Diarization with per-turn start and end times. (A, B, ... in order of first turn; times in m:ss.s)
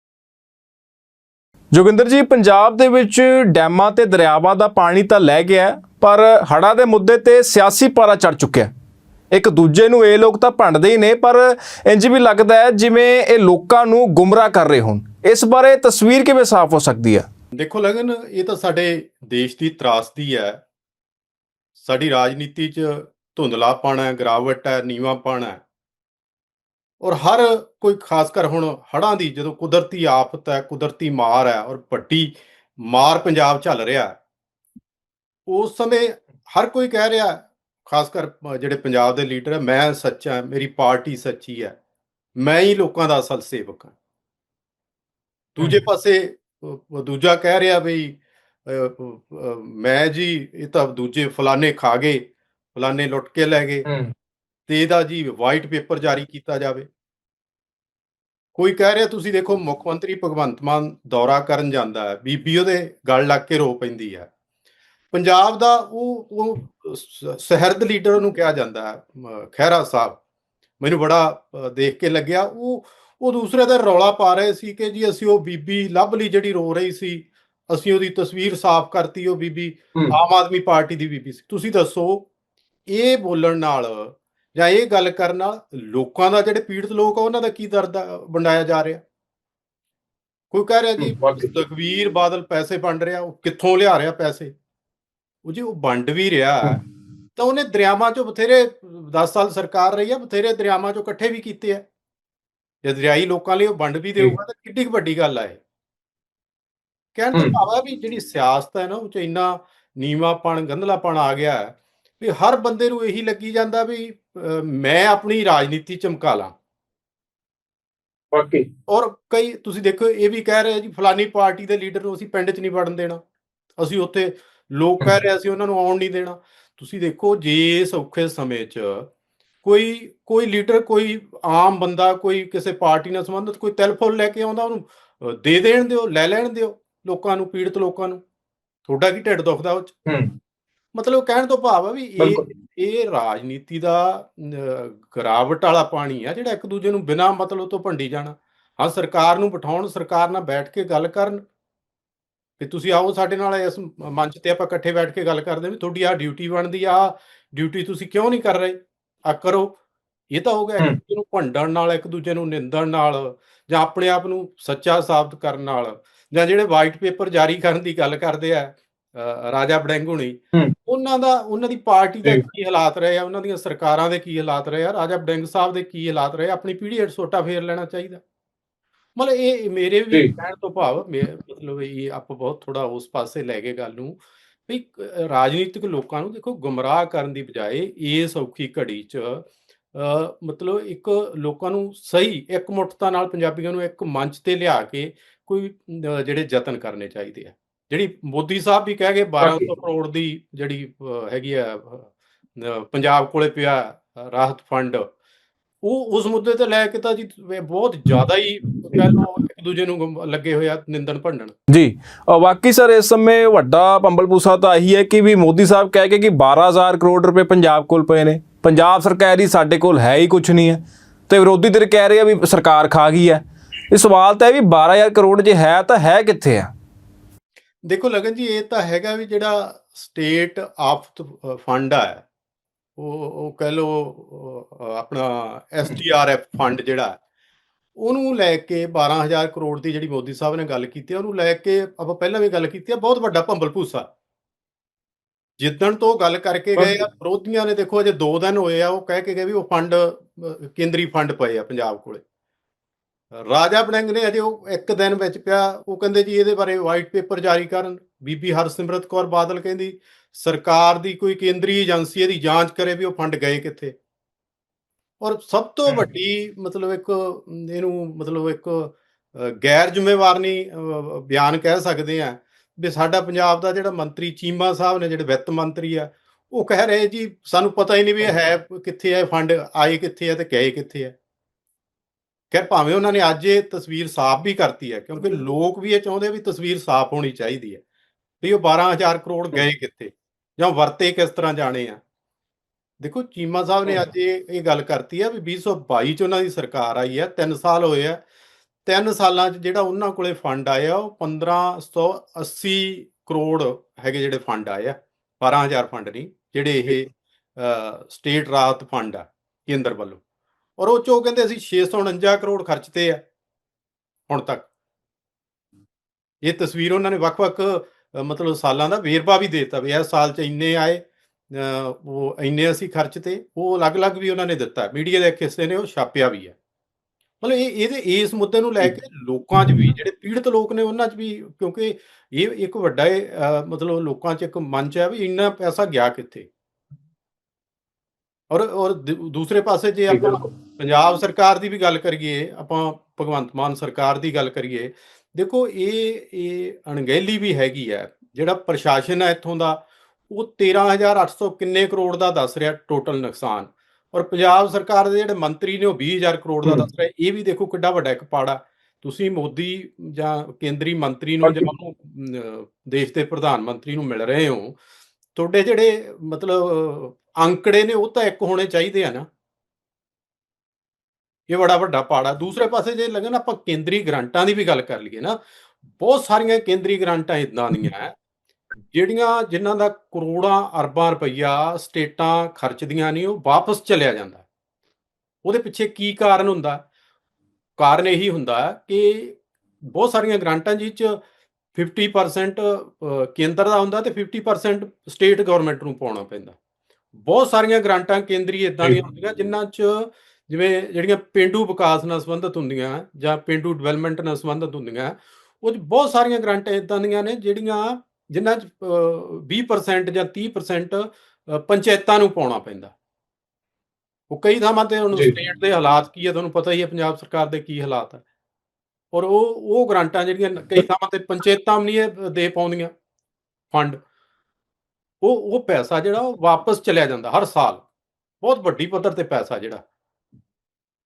0:01.7-0:08.7 A
0:09.3-0:17.3 A
0:17.6-0:20.6 B
0:21.8-0:25.6 B
0:27.0-0:34.1 B
0:35.5-0:41.7 B
0:42.4-0:43.9 B
0:45.6-0:52.2 B
0:52.7-0:53.8 B
0:53.8-0:54.1 A
0:54.7-0:56.9 B
0:58.5-1:04.3 B
1:05.1-1:10.2 B
1:10.8-1:22.2 B
1:22.9-1:29.0 B
1:30.5-1:34.5 B
1:31.0-1:31.5 A
1:35.4-1:36.8 B
1:37.4-1:41.8 B
1:42.8-1:45.6 B
1:47.1-1:56.5 B
1:58.3-1:58.7 A
1:58.9-2:03.2 B
2:03.8-2:09.1 B
2:09.6-2:18.2 B
2:18.8-2:19.9 B
2:20.1-2:20.3 A
2:20.9-2:31.4 B
2:22.2-2:22.5 A
2:32.6-2:39.7 B
2:40.3-2:58.2 B
2:59.2-3:04.2 B
3:04.7-3:25.1 B
3:19.4-3:19.7 A
3:25.8-3:31.5 B
3:31.7-3:46.7 A
3:47.8-3:52.2 B
3:53.0-3:57.2 B
3:58.0-4:04.0 B
4:05.6-4:12.2 B
4:06.8-4:07.0 A
4:13.3-4:23.9 B
4:25.2-4:41.1 B
4:42.5-4:47.8 B
4:48.4-4:52.0 B
4:53.0-4:58.2 B
4:58.8-5:10.2 B
5:10.8-5:13.2 B
5:14.3-5:14.7 B
5:16.4-5:21.0 B
5:21.5-5:26.6 B
5:27.4-5:36.5 B
5:38.5-6:04.8 B
5:40.1-5:40.5 A
6:05.3-6:09.2 B
6:11.5-6:15.4 B
6:16.0-6:18.1 B
6:18.9-6:24.4 B
6:25.4-6:26.8 B
6:27.8-6:29.4 B
6:29.9-6:31.2 B
6:31.7-6:36.6 B
6:37.2-6:52.9 B
6:54.3-6:58.2 B
6:59.1-7:02.9 B
7:03.7-7:04.0 B
7:05.2-7:07.8 B
7:08.4-7:09.8 B